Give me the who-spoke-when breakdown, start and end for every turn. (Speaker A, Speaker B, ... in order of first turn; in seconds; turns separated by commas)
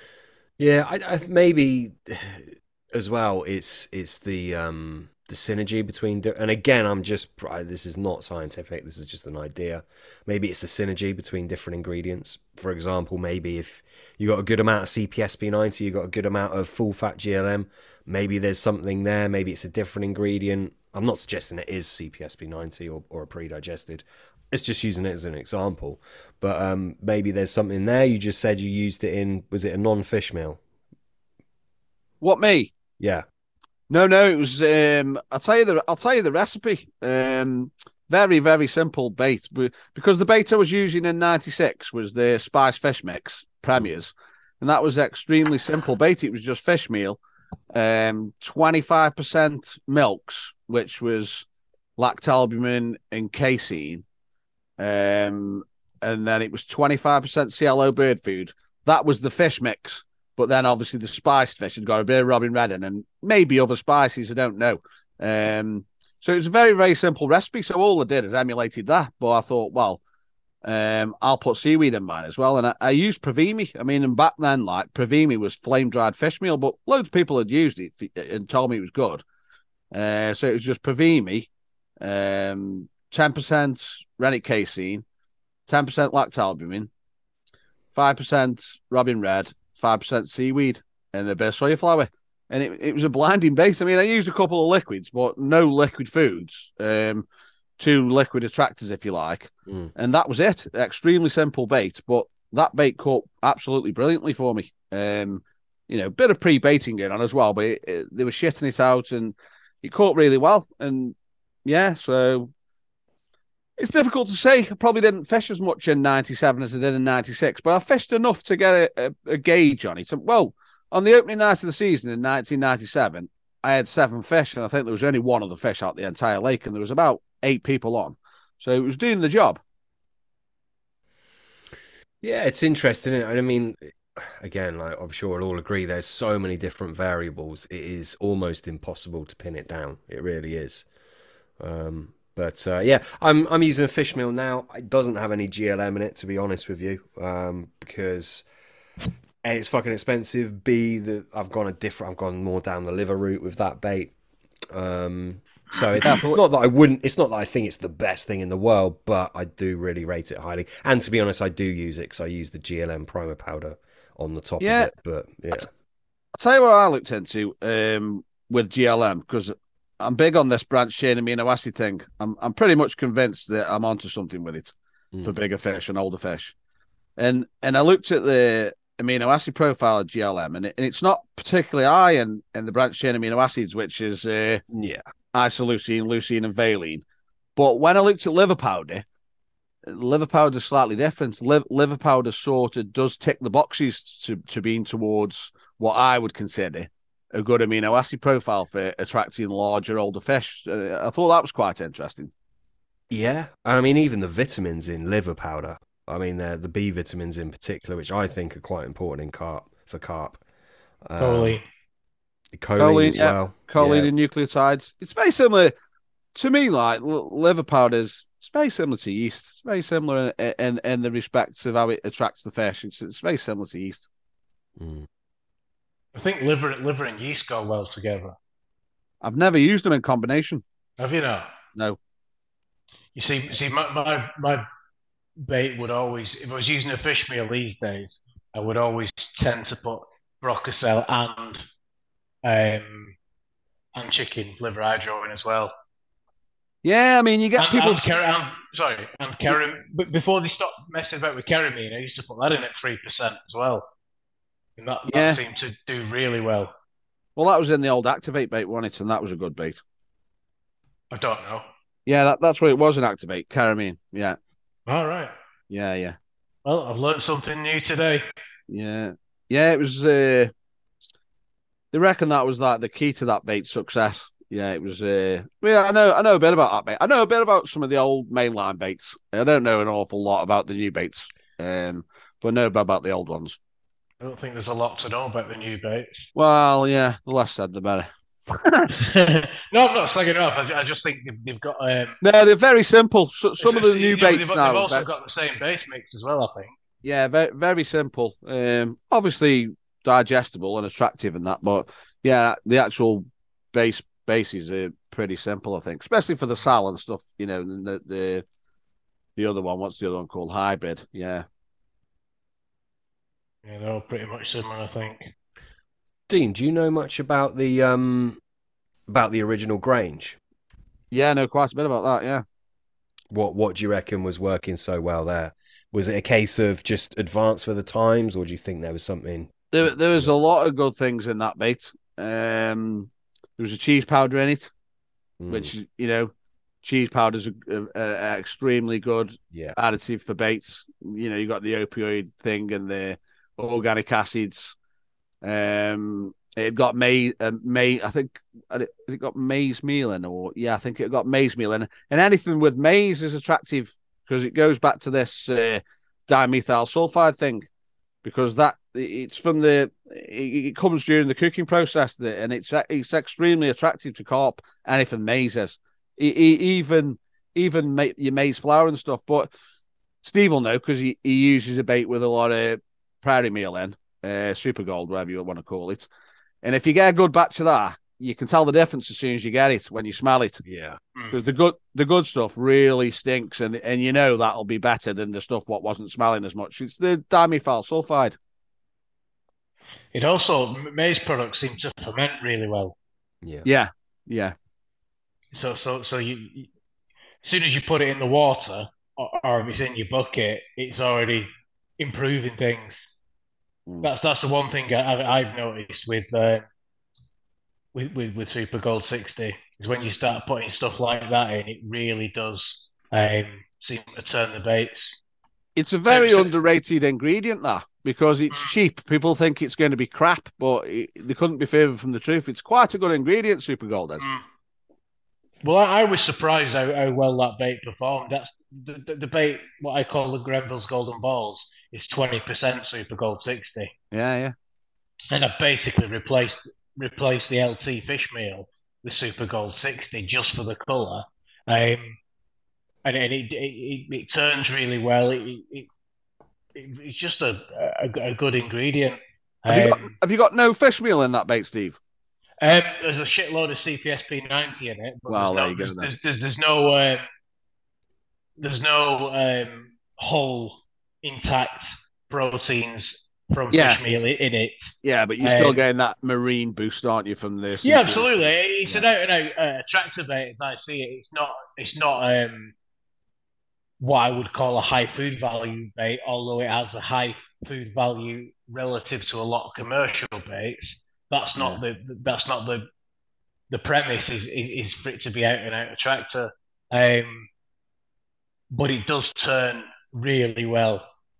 Speaker A: 0.6-30.6, Speaker B: 32.2-32.7, Speaker A: 33.0-33.2, Speaker B: 33.9-47.2, Speaker B: 47.7-51.5, Speaker B: 52.0-54.0, Speaker B: 54.8-70.0, Speaker B: 70.6-79.2, Speaker B: 79.9-81.5, Speaker B: 82.0-85.0, Speaker B: 85.7-86.9, Speaker B: 87.9-97.2, Speaker B: 97.8-112.5, Speaker B: 113.8-129.6, Speaker A: 132.2-140.8, Speaker A: 141.6-148.4, Speaker A: 149.4-154.1, Speaker A: 154.7-165.7, Speaker B: 156.0-156.4, Speaker B: 164.6-164.9, Speaker B: 166.3-176.5, Speaker B: 177.2-184.6, Speaker A: 184.7-185.0, Speaker B: 185.3-187.0, Speaker B: 187.6-189.0, Speaker B: 189.8-202.3, Speaker A: 203.1-210.4, Speaker A: 211.0-211.6, Speaker C: 211.2-211.6, Speaker A: 212.6-214.1, Speaker B: 212.8-215.7, Speaker B: 216.3-224.1, Speaker A: 224.8-225.1, Speaker C: 226.1-228.3, Speaker B: 229.2-230.6, Speaker C: 231.0-231.5, Speaker C: 233.1-234.6, Speaker C: 235.4-241.6, Speaker C: 242.4-243.1, Speaker C: 243.9-245.7, Speaker B: 246.8-248.1, Speaker C: 247.6-253.9, Speaker C: 254.8-256.7, Speaker B: 255.1-255.4, Speaker B: 257.4-259.8, Speaker C: 261.1-261.6, Speaker B: 262.1-264.4, Speaker C: 264.9-265.3, Speaker B: 265.7-266.2, Speaker C: 266.6-268.2, Speaker B: 268.7-270.5, Speaker B: 271.9-283.6, Speaker C: 284.2-286.3, Speaker B: 286.4-289.0, Speaker C: 288.9-292.2, Speaker B: 292.2-295.1, Speaker C: 293.6-296.7, Speaker B: 297.0-308.4, Speaker B: 309.4-311.4, Speaker C: 313.6-315.3, Speaker A: 316.3-318.4, Speaker A: 319.1-320.4, Speaker B: 321.1-322.4, Speaker A: 323.3-329.6, Speaker B: 329.7-334.7, Speaker A: 335.4-335.7, Speaker B: 335.5-336.3, Speaker B: 336.8-344.8, Speaker B: 345.4-357.7, Speaker B: 358.2-369.5, Speaker B: 370.2-376.1, Speaker B: 376.6-380.6, Speaker A: 380.6-381.0, Speaker B: 381.3-388.4, Speaker C: 390.1-392.9, Speaker A: 393.4-393.7, Speaker B: 393.6-394.5, Speaker C: 395.5-396.7, Speaker C: 397.4-401.5, Speaker C: 402.0-402.9, Speaker C: 404.0-406.6, Speaker C: 407.9-415.1, Speaker B: 415.8-424.3, Speaker C: 416.1-416.5, Speaker C: 425.6-433.9, Speaker B: 434.1-434.5, Speaker C: 435.3-442.2, Speaker C: 443.0-445.9, Speaker C: 446.7-450.1, Speaker B: 449.7-452.0, Speaker C: 452.6-457.2, Speaker B: 455.3-456.1, Speaker C: 458.6-464.9, Speaker B: 463.7-464.0, Speaker B: 465.0-469.0, Speaker C: 465.4-465.8, Speaker C: 467.8-472.7, Speaker C: 474.0-482.9, Speaker C: 483.7-487.5, Speaker C: 488.7-491.0